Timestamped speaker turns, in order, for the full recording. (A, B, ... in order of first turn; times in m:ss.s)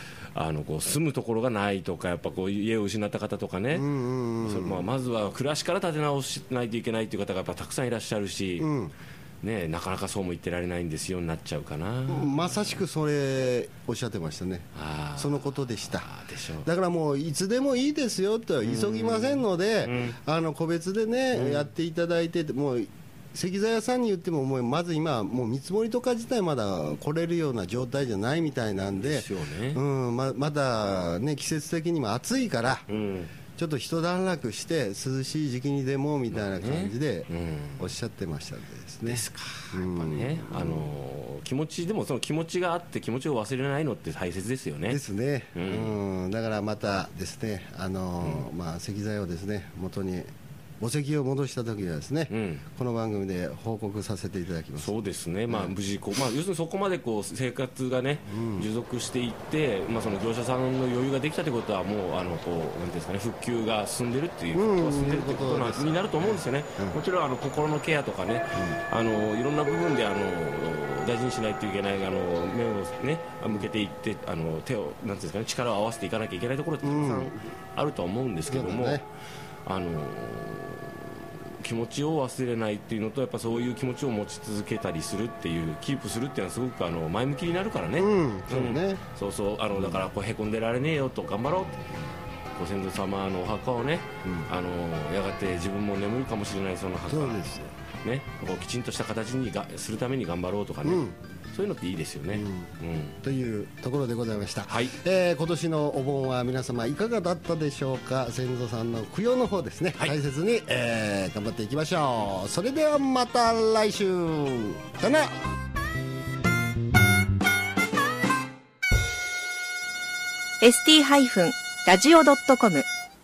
0:00.3-0:03.9 A
0:03.7-0:04.9 B
0:04.4-0:08.7 A
0:08.6-0:08.9 B
0:09.4-0:12.8 A
0:12.1-0:14.7 B
0:14.8-0:16.7 A
0:15.2-0:16.1 B
0:16.6-0:32.9 B
0:18.6-0:20.2 A
0:21.3-0:21.7 A
0:29.0-0:29.8 A
0:32.9-0:33.3 A
0:33.6-0:40.9 B
0:36.3-0:37.9 A
0:39.1-0:45.0 A
0:44.9-0:55.0 B
0:45.6-0:46.0 A
0:48.2-0:48.5 A
0:52.3-0:52.6 A
0:54.8-1:19.0 A
0:58.3-0:58.7 B
1:04.5-1:07.0 B
1:08.6-1:08.8 B
1:16.8-1:17.4 B
1:18.5-1:19.0 B
1:19.6-1:32.0 A
1:28.0-1:29.0 B
1:29.8-1:30.0 B
1:32.6-1:43.2 A
1:34.2-1:34.5 B
1:37.1-1:37.7 B
1:40.8-1:41.2 B
1:42.3-1:55.3 B
1:44.7-1:45.0 A
2:00.6-2:02.9 C